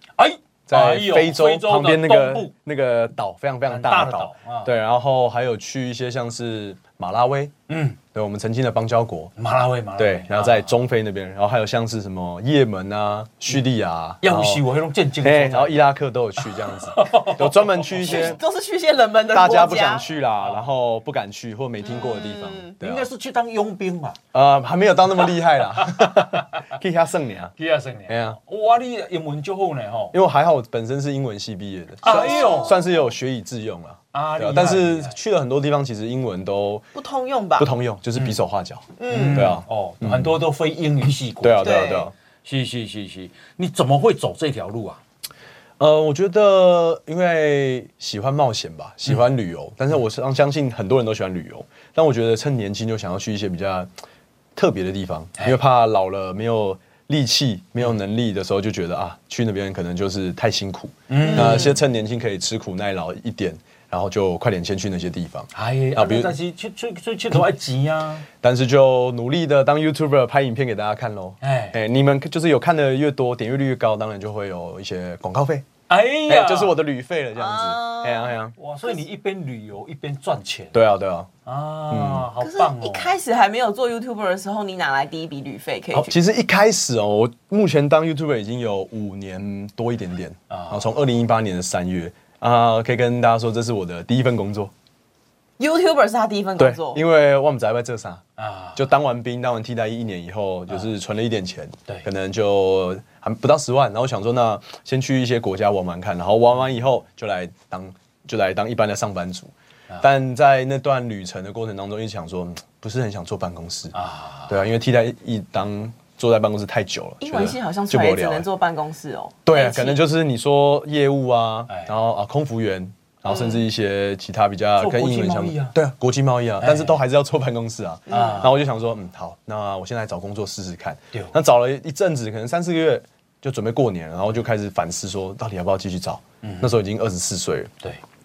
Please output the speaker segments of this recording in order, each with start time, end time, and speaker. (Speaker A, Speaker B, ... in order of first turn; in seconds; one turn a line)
Speaker A: 0.2-2.5
Speaker B: 0.7-7.5
Speaker A: 3.7-4.7
Speaker A: 7.7-8.0
Speaker B: 8.1-9.3
Speaker A: 9.4-10.8
Speaker B: 10.0-14.7
Speaker A: 14.2-15.9
Speaker B: 15.2-18.4
Speaker A: 16.4-18.4
Speaker C: 18.0-20.0
Speaker B: 19.3-23.1
Speaker A: 20.1-20.7
Speaker C: 21.9-22.7
Speaker A: 22.8-24.2
Speaker B: 24.3-27.6
Speaker A: 25.8-26.6
Speaker A: 27.6-30.1
Speaker B: 28.1-28.4
Speaker B: 30.1-36.9
Speaker A: 32.0-32.8
Speaker C: 32.0-33.0
Speaker A: 34.1-35.2
Speaker C: 37.0-37.7
Speaker B: 37.6-40.3
Speaker C: 39.0-39.6
Speaker A: 39.1-45.0
Speaker B: 41.4-42.1
Speaker C: 41.6-42.1
Speaker B: 45.8-53.9
Speaker B: 54.6-66.3
Speaker A: 61.1-61.8
Speaker C: 61.2-61.8
Speaker A: 65.5-68.3
Speaker B: 68.4-75.7
Speaker A: 71.4-71.8
Speaker A: 75.9-76.8
Speaker B: 76.3-78.5
Speaker C: 77.3-79.0
Speaker A: 78.6-80.8
Speaker B: 80.7-81.3
Speaker A: 81.5-83.2
Speaker B: 81.9-82.3
Speaker C: 82.4-86.2
Speaker B: 85.9-94.7
Speaker A: 90.5-90.9
Speaker C: 95.6-97.0
Speaker B: 96.6-98.2
Speaker A: 98.4-98.8
Speaker B: 98.8-113.9
Speaker A: 113.9-114.6
Speaker B: 114.5-118.5
Speaker C: 117.2-120.0
Speaker B: 119.4-137.7
Speaker C: 123.3-123.6
Speaker A: 124.8-125.8
Speaker A: 126.6-127.0
Speaker C: 128.1-128.5
Speaker A: 128.1-128.5
Speaker A: 136.4-136.8